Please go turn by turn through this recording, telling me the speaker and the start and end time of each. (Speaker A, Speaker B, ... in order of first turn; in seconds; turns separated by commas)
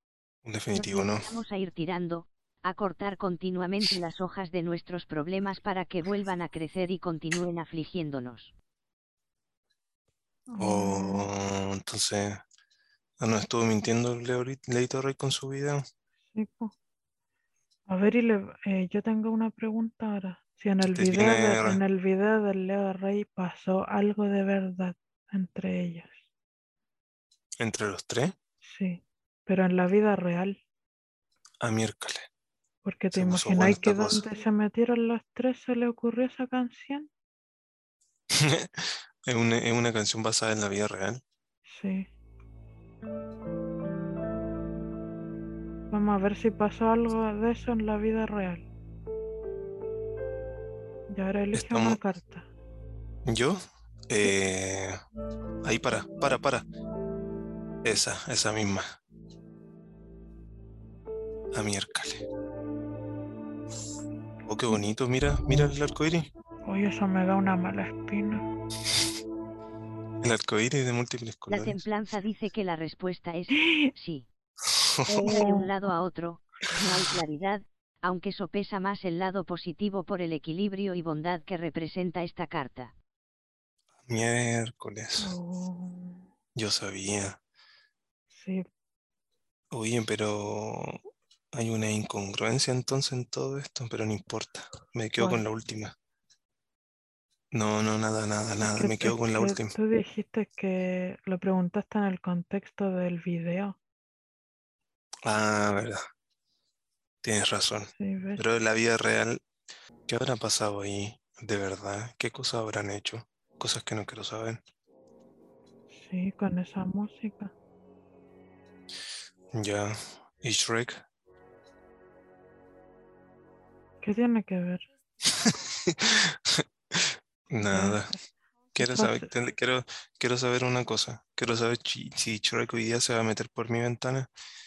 Speaker A: 0.4-1.3, Speaker B: 0.7-8.5, Speaker C: 10.5-11.3, Speaker A: 10.6-12.4, Speaker A: 13.2-15.8, Speaker C: 16.3-16.7, Speaker C: 17.9-26.1, Speaker A: 20.9-21.8, Speaker A: 27.6-28.3, Speaker C: 28.6-30.6, Speaker A: 31.6-32.3, Speaker C: 32.8-37.1, Speaker A: 33.1-34.2, Speaker A: 38.3-41.2, Speaker C: 41.7-42.1, Speaker C: 45.9-48.6, Speaker C: 51.1-52.5, Speaker A: 51.5-52.0, Speaker A: 53.2-55.0, Speaker A: 55.6-56.7, Speaker A: 57.8-59.0, Speaker A: 61.5-62.2, Speaker A: 64.4-66.3, Speaker C: 66.7-68.4, Speaker A: 70.2-71.8, Speaker B: 71.5-74.2, Speaker C: 73.5-73.9, Speaker A: 74.7-75.4, Speaker B: 75.1-82.9, Speaker C: 75.2-75.7, Speaker A: 84.1-85.3, Speaker C: 85.2-86.2, Speaker A: 86.5-87.4, Speaker C: 88.3-88.7, Speaker A: 89.7-91.0, Speaker A: 91.5-95.9, Speaker A: 97.5-99.7, Speaker C: 98.6-103.8, Speaker A: 105.2-106.0, Speaker A: 107.2-109.4, Speaker C: 108.0-108.4, Speaker A: 110.1-114.6, Speaker C: 115.9-117.5, Speaker A: 119.5-121.0, Speaker C: 124.0-124.8, Speaker A: 125.4-128.1, Speaker C: 127.7-128.0, Speaker A: 128.7-134.3, Speaker C: 128.8-129.3